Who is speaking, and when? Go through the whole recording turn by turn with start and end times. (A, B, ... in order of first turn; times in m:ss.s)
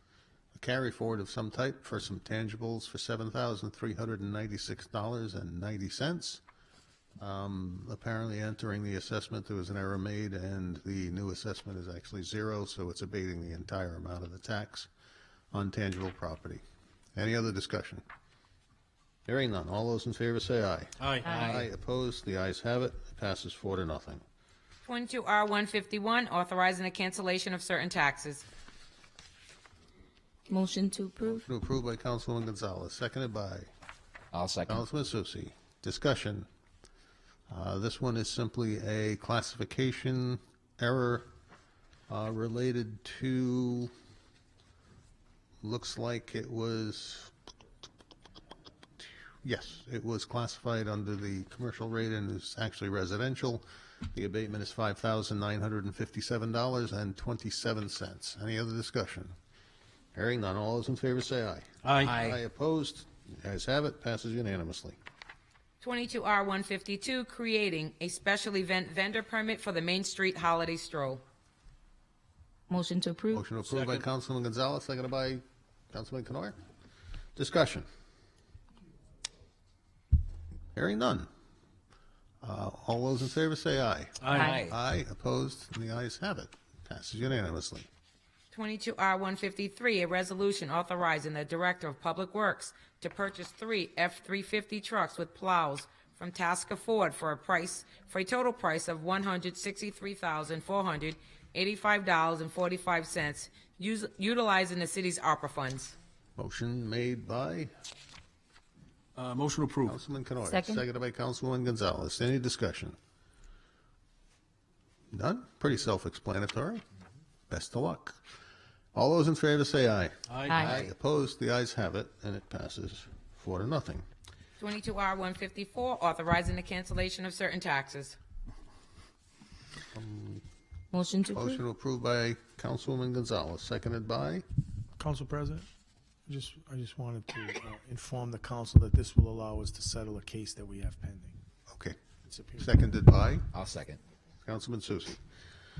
0:00.5-0:06.4 A
0:07.2-0:14.9 A
0:15.5-0:16.6 A
0:17.2-0:18.0 A
0:19.3-0:24.2 A
0:21.0-0:21.4 B
0:21.3-0:21.7 C
0:24.8-0:28.4 D
0:30.5-0:31.3 E
0:31.2-0:33.7 A
0:34.3-0:34.8 C
0:34.6-0:36.5 A
0:37.5-0:41.3 A
0:42.1-0:43.9 A
0:45.6-0:47.3 A
0:49.4-0:59.3 A
1:00.1-1:05.0 A
1:01.8-1:02.2 B
1:02.0-1:02.4 C
1:05.8-1:11.2 D
1:12.7-1:13.4 E
1:13.3-1:16.6 A
1:13.7-1:14.0 B
1:17.4-1:17.9 A
1:20.8-1:21.3 A
1:22.4-1:27.9 A
1:24.2-1:24.6 B
1:24.4-1:24.8 C
1:28.5-1:46.0 D
1:46.4-1:47.7 A
1:49.2-1:50.0 B
1:49.9-1:53.0 A
1:50.5-1:50.8 E
1:55.1-1:56.8 A
1:57.5-1:58.2 A
1:58.9-2:04.1 A
2:00.3-2:00.7 B
2:00.5-2:00.8 E
2:04.6-2:08.2 D
2:09.9-2:10.4 A
2:10.9-2:11.6 E
2:11.3-2:14.4 A
2:15.0-2:15.7 F
2:16.3-2:21.4 F
2:21.7-2:22.0 A
2:22.3-2:22.7 F
2:22.6-2:23.5 A
2:23.5-2:24.0 C
2:24.4-2:25.2 A